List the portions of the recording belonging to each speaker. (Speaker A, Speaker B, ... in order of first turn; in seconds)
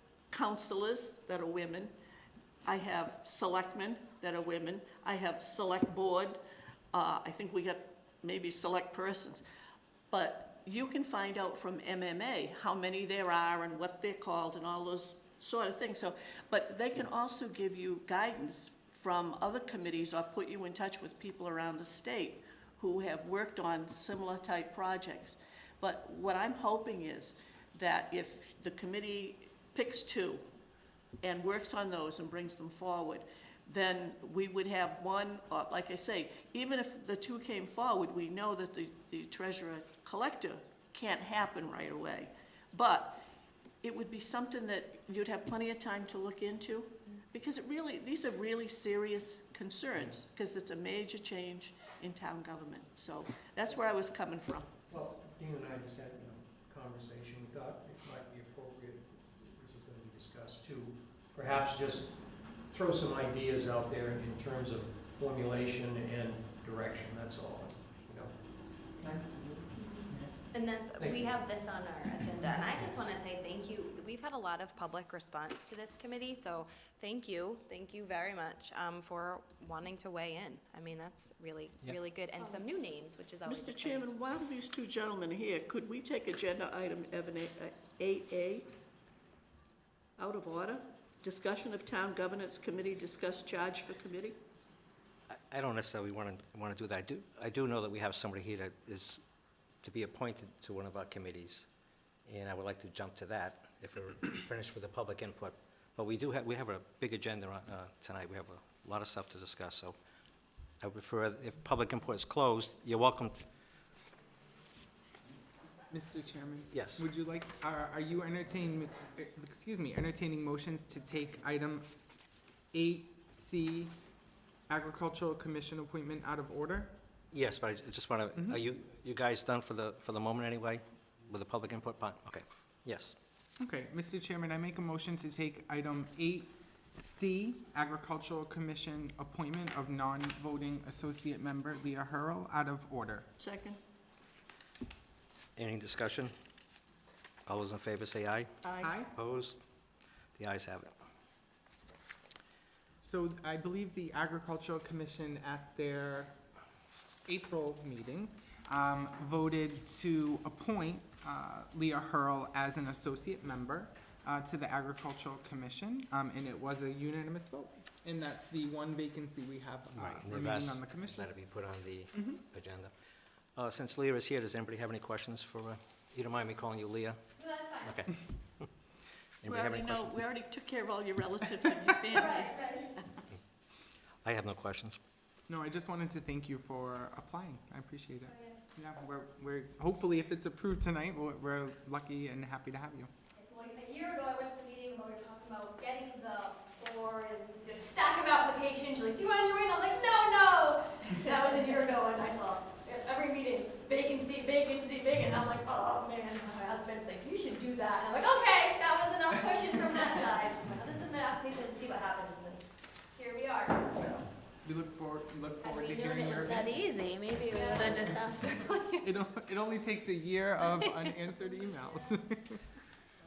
Speaker A: 0.3-1.9, 2.6-6.4, 6.9-9.4, 10.1-30.4, 31.2-43.2, 43.8-54.7, 83.5-88.7, 90.2-94.4, 143.4-143.8, 148.6-148.9, 179.4-183.1
Speaker B: 54.9-68.3, 71.0-71.3
Speaker C: 69.0-70.3, 115.9-121.9, 122.7-124.0, 124.7-126.9, 128.3-128.6, 133.6-143.3, 148.8-149.1, 153.0-156.4, 157.2-171.3, 172.1-172.4, 185.5-193.1, 214.6-216.7, 219.0-222.7
Speaker D: 70.5-84.0, 177.4-177.8, 215.7-219.1, 220.6-221.2
Speaker E: 95.3-99.2, 99.8-101.7, 102.2-110.0, 110.8-113.4, 116.7-117.0, 127.3-133.2, 145.6-146.3, 147.4-148.5, 149.1-149.6, 150.3-150.9, 169.9-172.9, 173.6-177.2, 177.7-178.7, 179.4-180.1, 184.2-185.0
Speaker F: 182.3-182.9, 188.3-188.6, 193.3-212.6, 213.1-214.0, 217.5-218.1